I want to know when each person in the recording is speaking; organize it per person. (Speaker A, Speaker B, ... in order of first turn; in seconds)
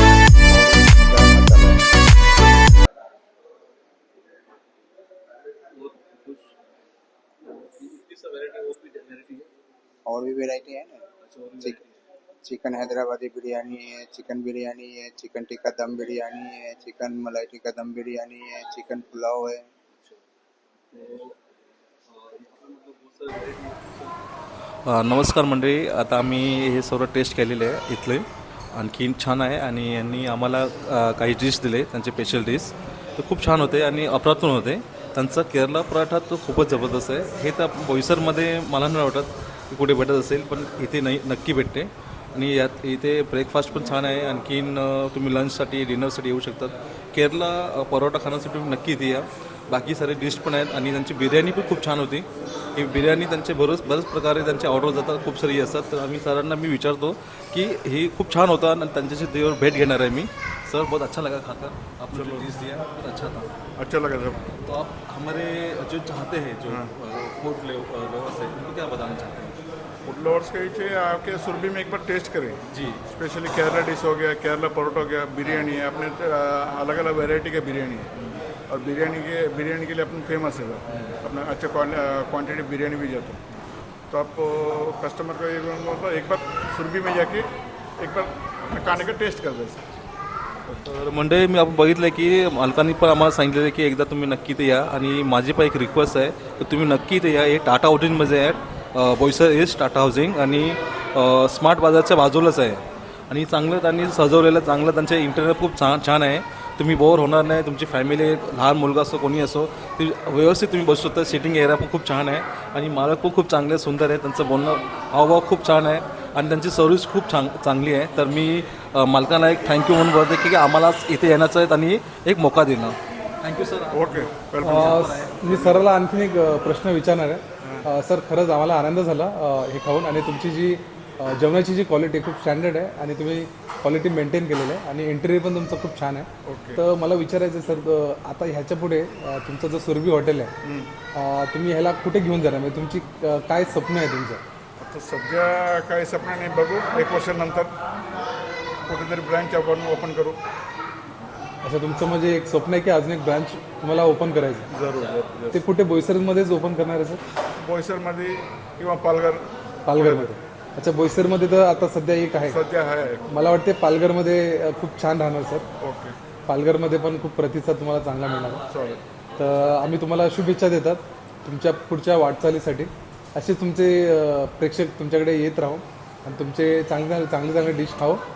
Speaker A: 0.4-2.0, 10.1-11.0, 12.4-19.6
Speaker B: 5.7-6.5, 7.8-9.5, 11.3-11.9, 20.9-21.3, 22.1-24.1, 24.9-28.2, 28.7-63.5, 64.6-69.6, 72.7-73.0, 90.8-125.3
Speaker C: 62.1-62.5, 63.8-64.4, 70.0-72.6, 73.1-78.1, 78.7-83.4, 84.1-87.5, 88.0-89.8, 123.9-125.8, 136.4-136.8, 140.6-140.9, 144.8-147.7, 148.9-150.4, 154.7-155.6, 157.6-160.3, 162.5-163.2, 165.8-166.1, 168.7-169.0
Speaker D: 124.6-140.5, 141.1-144.4, 151.6-154.7, 155.5-157.2, 159.9-162.6, 163.3-165.7, 166.5-168.6, 169.4-178.2